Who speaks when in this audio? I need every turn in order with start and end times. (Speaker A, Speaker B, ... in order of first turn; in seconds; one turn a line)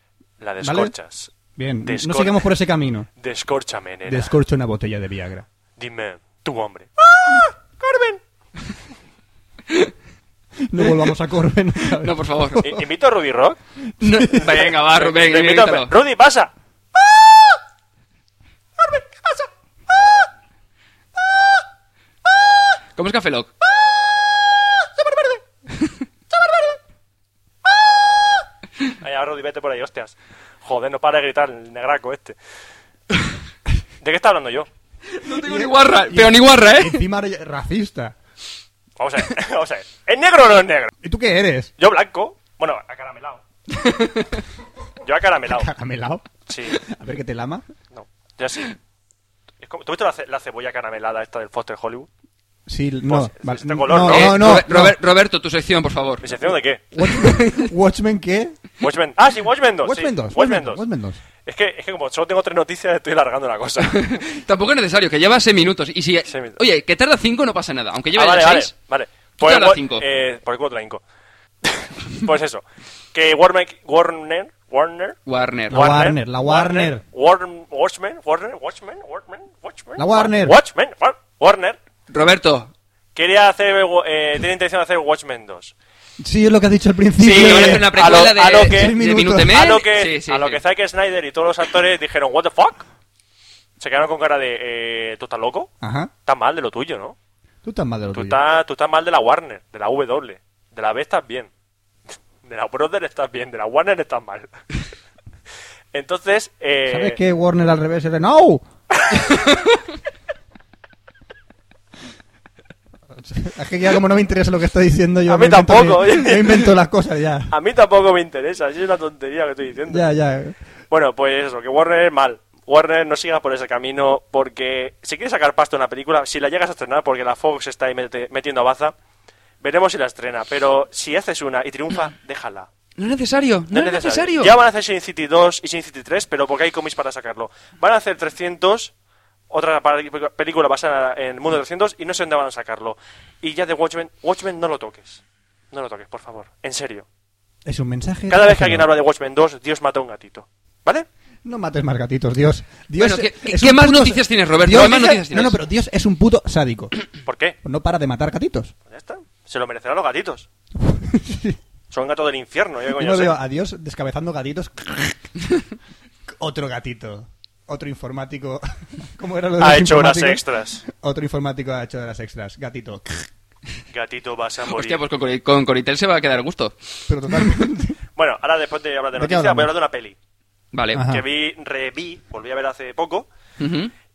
Speaker A: 0.4-1.3
Speaker B: 0.6-0.9
Speaker B: 1.6-3.1
Speaker A: 1.8-2.5
Speaker A: 3.2-4.3
Speaker B: 4.1-5.5
Speaker A: 5.8-8.2
Speaker B: 10.7-12.8
Speaker C: 12.0-12.6
Speaker A: 12.6-13.6
Speaker B: 14.0-14.6
Speaker C: 14.0-15.9
Speaker A: 14.4-16.5
Speaker A: 18.9-19.5
Speaker C: 23.0-23.5
Speaker A: 29.0-32.4
Speaker A: 34.0-34.7
Speaker C: 35.1-37.0
Speaker B: 35.3-38.2
Speaker A: 39.0-40.9
Speaker B: 41.0-41.7
Speaker A: 41.8-43.4
Speaker C: 43.7-44.4
Speaker A: 45.0-45.7
Speaker B: 45.5-46.3
Speaker A: 46.5-46.8
Speaker B: 46.8-47.6
Speaker A: 47.9-48.7
Speaker A: 49.6-52.1
Speaker B: 52.7-55.0
Speaker A: 53.1-54.5
Speaker C: 54.0-56.3
Speaker A: 56.2-56.8
Speaker B: 57.0-58.6
Speaker C: 57.1-57.7
Speaker A: 58.8-60.8
Speaker B: 59.8-61.2
Speaker A: 61.5-64.0
Speaker C: 63.9-68.7
Speaker A: 66.3-66.6
Speaker A: 68.2-71.0
Speaker C: 69.4-70.0
Speaker A: 71.6-75.2
Speaker C: 75.3-75.8
Speaker B: 75.7-77.0
Speaker A: 75.7-81.8
Speaker B: 80.0-80.6
Speaker C: 82.1-82.7
Speaker A: 83.2-85.7
Speaker B: 86.2-89.6
Speaker C: 87.2-90.6
Speaker A: 87.4-89.0
Speaker A: 89.5-92.8
Speaker A: 93.8-95.7
Speaker B: 95.8-96.1
Speaker A: 96.3-97.2
Speaker B: 97.6-98.4
Speaker A: 98.1-101.5
Speaker A: 102.4-104.5
Speaker A: 105.9-107.2
Speaker B: 106.9-108.6
Speaker A: 109.0-109.4
Speaker B: 113.2-117.5
Speaker A: 115.3-116.8
Speaker A: 117.5-120.1
Speaker B: 119.9-120.5
Speaker A: 120.9-128.9
Speaker A: 129.6-132.7
Speaker C: 133.0-134.6
Speaker A: 133.7-138.9
Speaker A: 139.5-147.1
Speaker B: 147.7-148.9
Speaker A: 148.3-151.1
Speaker B: 151.4-156.9
Speaker C: 153.0-155.6
Speaker A: 157.3-157.6
Speaker B: 157.6-158.7
Speaker A: 158.9-160.5
Speaker B: 160.8-161.6
Speaker A: 161.9-163.4
Speaker B: 163.0-165.3
Speaker B: 166.3-173.3
Speaker A: 169.6-170.8
Speaker A: 173.9-175.0
Speaker C: 174.7-176.8
Speaker B: 177.1-178.0
Speaker A: 178.2-180.2
Speaker B: 179.2-179.7
Speaker C: 180.7-181.1
Speaker B: 180.9-181.2
Speaker A: 181.0-183.3
Speaker C: 183.6-183.9